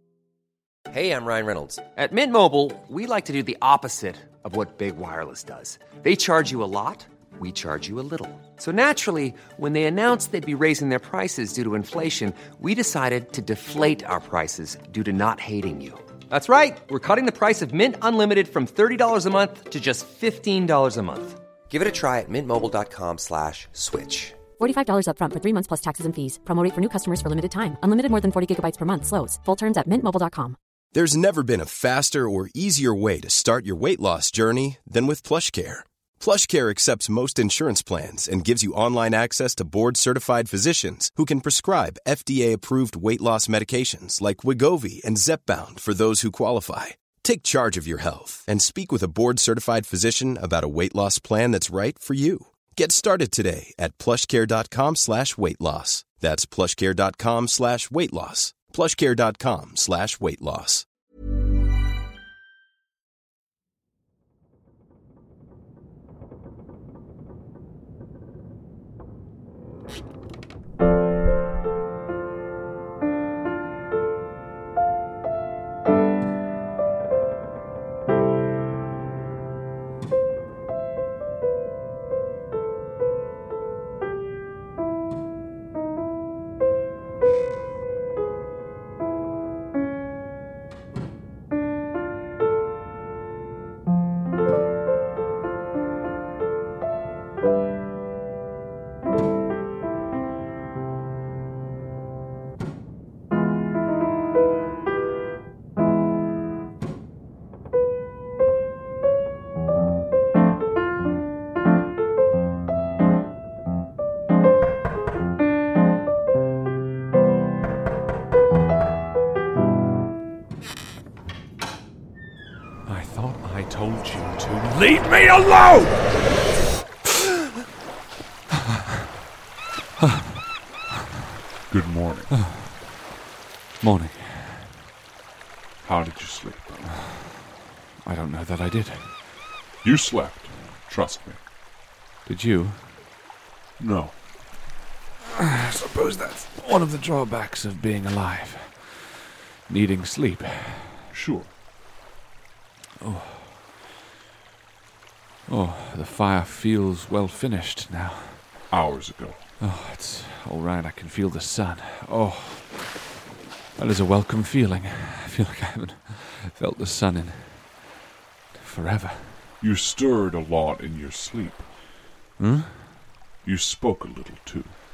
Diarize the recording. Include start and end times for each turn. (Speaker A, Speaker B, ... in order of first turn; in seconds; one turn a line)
Speaker A: 0.9-24.4
Speaker B: 24.6-30.6
Speaker C: 30.9-60.9
Speaker D: 122.9-126.0
Speaker D: 127.1-127.5
Speaker D: 130.0-130.3
Speaker E: 131.7-132.3
Speaker D: 132.3-132.7
Speaker D: 133.8-134.7
Speaker E: 135.8-136.8
Speaker D: 136.9-137.4
Speaker D: 138.1-139.2
Speaker E: 139.8-141.4
Speaker D: 142.3-142.8
Speaker E: 143.8-144.2
Speaker D: 145.2-151.0
Speaker E: 151.1-151.5
Speaker D: 153.0-153.6
Speaker D: 155.5-158.4
Speaker E: 158.7-159.4
Speaker D: 159.6-163.0
Speaker D: 163.8-167.8
Speaker D: 168.6-169.4
Speaker E: 169.6-171.7
Speaker D: 172.4-173.0
Speaker E: 173.4-174.8